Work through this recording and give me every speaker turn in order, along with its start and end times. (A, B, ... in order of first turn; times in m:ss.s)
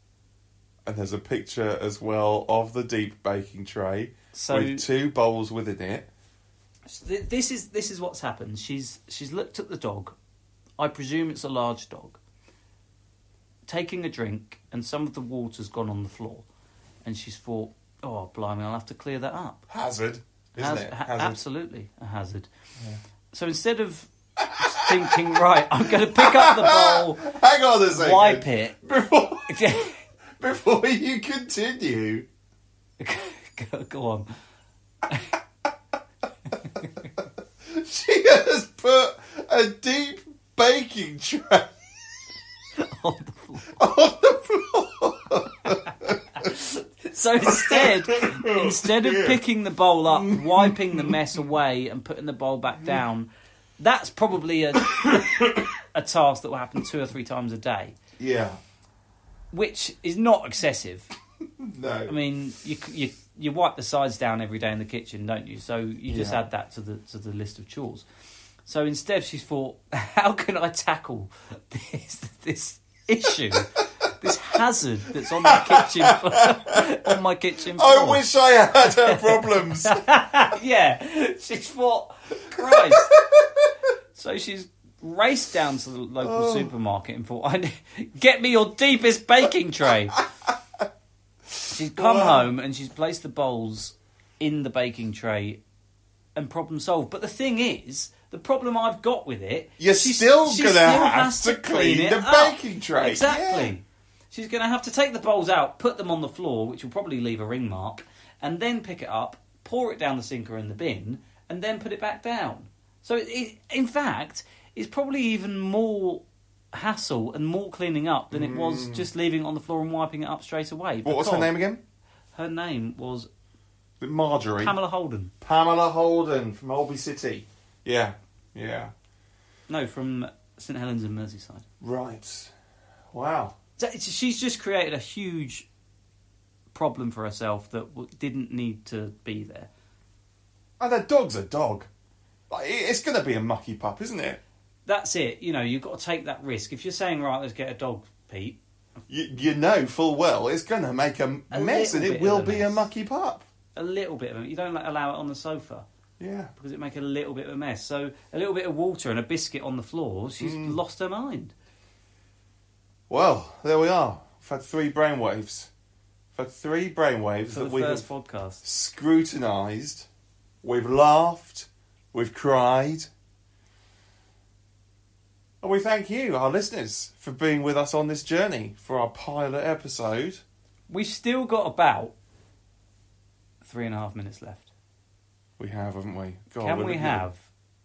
0:00.8-0:06.1 A
0:04.3-0:04.8 B
0:06.9-0:10.2 B
0:10.8-0:12.2 B
0:13.7-0:16.4 B
0:17.0-0:19.6 B
0:19.7-0:21.4 A
0:20.6-0:22.5 B
0:23.3-0:27.2 B
0:24.4-0:29.9 A
0:27.9-0:28.8 B
0:29.5-0:29.9 B
0:30.4-0:32.3 A
0:33.0-0:34.3 B
0:35.1-0:35.4 B
0:36.6-0:37.1 B
0:37.6-0:41.7 A
0:42.8-0:43.7 B
0:43.7-0:46.5 A
0:45.7-0:58.0 B
0:47.4-0:49.4 A
0:50.1-0:51.2 A
0:54.8-0:55.7 A
0:58.2-0:58.6 A
0:59.5-1:01.1 B
1:01.6-1:02.1 A
1:02.1-1:08.0 B
1:06.1-1:06.4 A
1:08.6-1:18.2 B
1:15.2-1:17.2 A
1:17.7-1:20.0 A
1:18.8-1:23.2 B
1:22.5-1:23.7 A
1:24.1-1:30.2 B
1:26.2-1:26.7 A
1:30.2-1:30.8 A
1:31.6-1:32.5 A
1:31.7-1:35.6 B
1:36.4-2:01.5 B
1:39.8-1:43.7 A
1:58.3-1:59.1 A
2:01.0-2:01.8 A
2:02.3-2:03.3 B
2:04.0-2:04.7 A
2:04.6-2:05.3 B
2:05.4-2:08.9 A
2:09.7-2:11.6 B
2:11.8-2:12.5 A
2:13.1-2:13.6 A
2:13.8-2:15.7 B
2:16.7-2:19.7 B
2:20.8-2:21.9 A
2:22.5-2:24.4 A
2:24.8-2:28.6 B
2:29.1-2:33.4 A
2:31.5-2:32.9 B
2:33.7-2:35.8 B
2:36.2-2:36.5 A
2:36.6-2:41.5 B
2:40.4-2:40.8 A
2:43.1-2:45.7 A
2:46.3-2:48.0 A
2:47.5-2:48.6 B
2:48.6-2:50.1 A
2:50.6-2:53.1 A
2:55.6-3:00.4 A
3:00.9-3:02.1 B
3:03.6-3:04.7 B
3:05.6-3:07.3 A
3:06.6-3:07.4 B